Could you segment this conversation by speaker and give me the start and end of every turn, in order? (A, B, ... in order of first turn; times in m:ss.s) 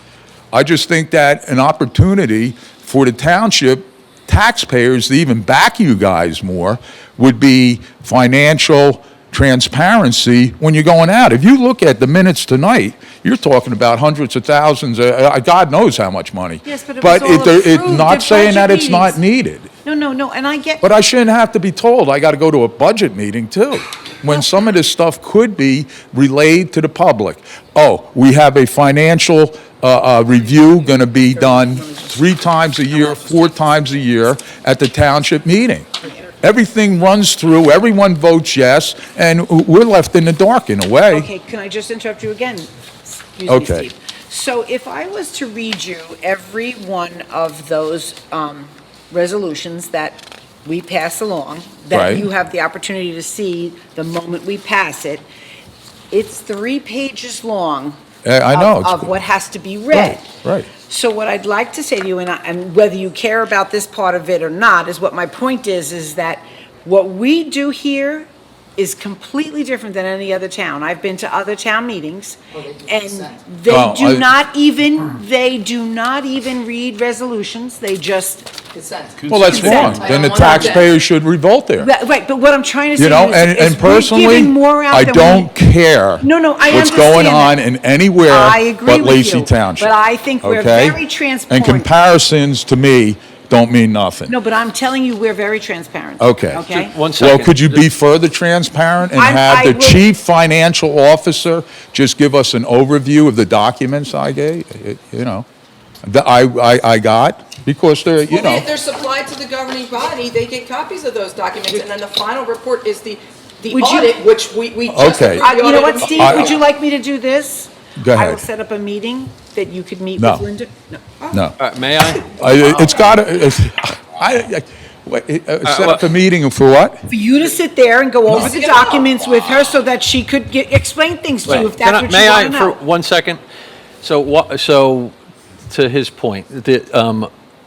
0:00.5-0:19.7 A
0:16.6-0:19.2 B
0:19.8-0:20.8 B
0:20.8-0:41.3 A
0:31.3-0:32.2 B
0:41.1-0:55.2 B
0:43.5-0:43.9 A
0:51.9-0:52.2 A
0:56.1-0:58.0 B
0:58.2-0:59.1 A
0:58.5-1:00.3 B
0:59.9-1:00.7 A
1:00.8-1:18.5 B
1:12.5-1:13.4 C
1:13.7-1:14.3 A
1:18.7-1:20.9 C
1:19.3-1:21.9 A
1:19.3-1:20.8 B
1:21.8-1:25.5 B
1:23.0-1:34.3 A
1:26.2-1:27.6 B
1:28.3-1:31.9 B
1:34.3-1:37.0 B
1:36.2-1:45.5 A
1:36.6-1:37.8 D
1:39.1-1:40.0 B
1:46.0-1:48.7 A
1:48.3-1:56.6 C
1:53.7-1:54.2 B
1:54.9-1:55.5 A
1:55.3-2:01.5 B
1:58.0-1:58.4 A
2:00.2-2:00.4 A
2:01.3-2:01.6 A
2:01.6-2:02.3 D
2:02.2-2:07.1 A
2:05.6-2:06.0 D
2:07.1-2:12.8 B
2:08.4-2:08.9 C
2:11.4-2:13.4 D
2:14.0-2:15.1 D
2:15.7-2:17.3 D